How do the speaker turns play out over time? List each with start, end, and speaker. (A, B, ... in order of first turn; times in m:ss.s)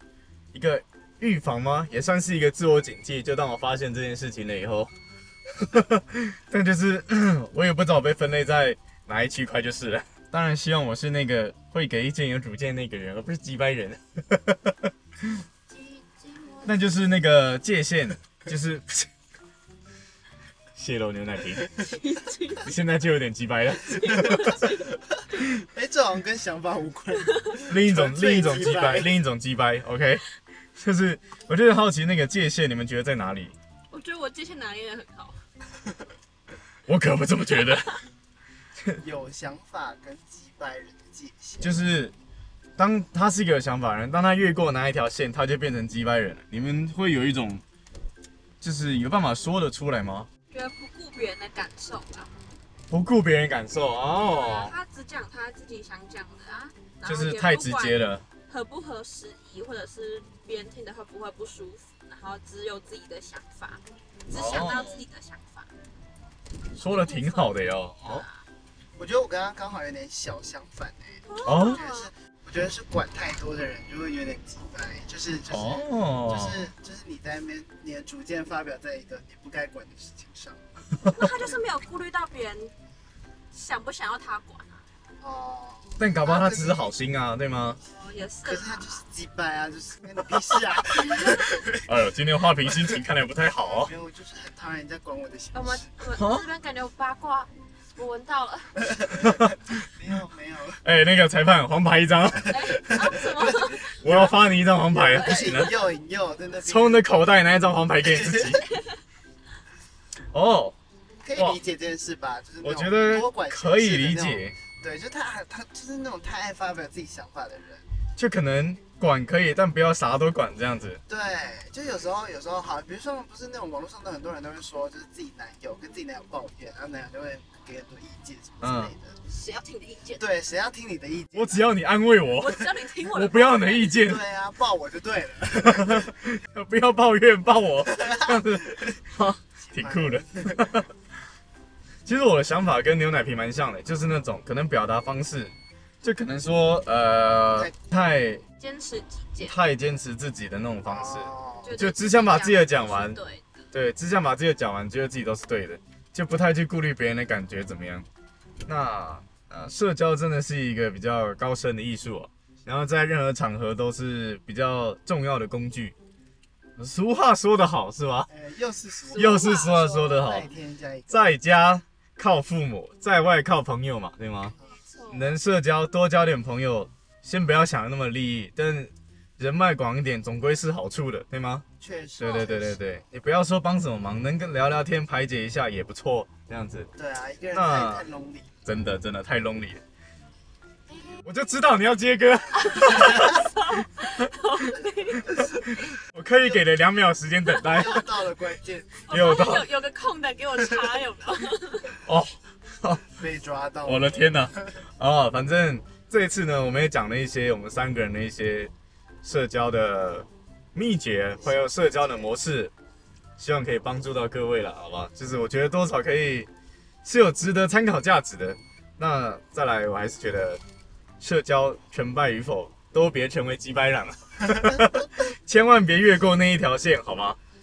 0:00.5-0:04.9 A
0:05.6-0:15.4 A
0:15.7-0:17.0 B
0:16.6-0:19.1 A
0:20.8-0:21.7 A
0:21.8-0:22.7 B
0:22.6-0:24.6 A
0:23.9-0:24.9 B
0:25.6-0:29.1 C
0:27.2-0:27.6 B
0:27.7-0:30.2 A
0:30.8-0:33.6 A
0:33.9-0:35.4 B
0:36.9-0:37.9 A
0:39.0-0:41.8 C
0:41.6-0:42.1 A
0:42.8-0:47.6 A
0:48.6-0:50.3 A
0:50.5-0:52.3 B
0:52.9-0:54.7 A
0:54.2-1:05.7 B
0:57.0-0:58.2 A
1:04.3-1:05.0 A
1:06.8-1:08.2 A
1:06.8-1:08.4 B
1:09.0-1:20.6 C
1:11.3-1:12.1 B
1:11.4-1:11.8 A
1:15.5-1:16.7 A
1:21.1-1:22.7 B
1:23.5-1:24.8 B
1:25.2-1:26.9 C
1:26.0-1:27.8 A
1:27.9-1:29.0 B
1:28.4-1:31.8 C
1:31.0-1:31.5 B
1:31.3-1:33.9 A
1:33.8-1:35.9 C
1:35.5-1:38.9 B
1:36.1-1:36.5 A
1:38.8-1:40.8 C
1:39.2-1:39.5 A
1:40.8-1:43.1 A
1:42.5-1:44.0 B
1:42.8-1:47.0 C
1:44.0-1:45.7 A
1:45.1-1:45.8 B
1:46.6-1:48.7 A
1:48.2-1:48.5 C
1:50.3-1:50.8 A
1:51.2-1:57.8 C
1:52.6-1:54.6 A
1:58.2-2:01.0 A
2:01.1-2:09.2 C
2:08.6-2:08.9 A
2:09.3-2:10.2 B
2:10.2-2:11.7 C
2:11.4-2:14.2 A
2:12.4-2:14.1 B
2:14.0-2:16.1 C
2:15.6-2:20.9 A
2:18.0-2:18.4 C
2:19.7-2:20.8 C
2:22.0-2:28.4 A
2:28.6-2:29.6 B
2:29.4-2:33.2 A
2:30.8-2:31.8 C
2:31.6-2:33.6 B
2:33.7-2:38.1 A
2:38.7-2:46.0 A
2:46.8-2:48.3 A
2:48.3-2:51.3 C
2:49.1-2:49.8 B
2:49.2-2:50.5 A
2:51.1-2:54.6 A
2:54.8-2:55.4 B
2:55.1-3:01.7 A
3:01.8-3:02.8 C
3:02.2-3:06.9 A
3:02.2-3:02.6 B
3:07.0-3:08.5 C
3:07.5-3:08.1 A
3:08.7-3:09.8 A
3:11.2-3:13.5 A
3:12.5-3:15.5 B
3:15.4-3:18.1 A
3:17.6-3:19.0 C
3:19.1-3:22.0 B
3:19.1-3:19.7 A
3:22.0-3:23.0 A
3:23.2-3:24.7 C
3:23.8-3:28.7 A
3:29.2-3:32.7 A
3:33.4-3:36.5 A
3:37.0-3:40.6 A
3:41.2-3:47.4 A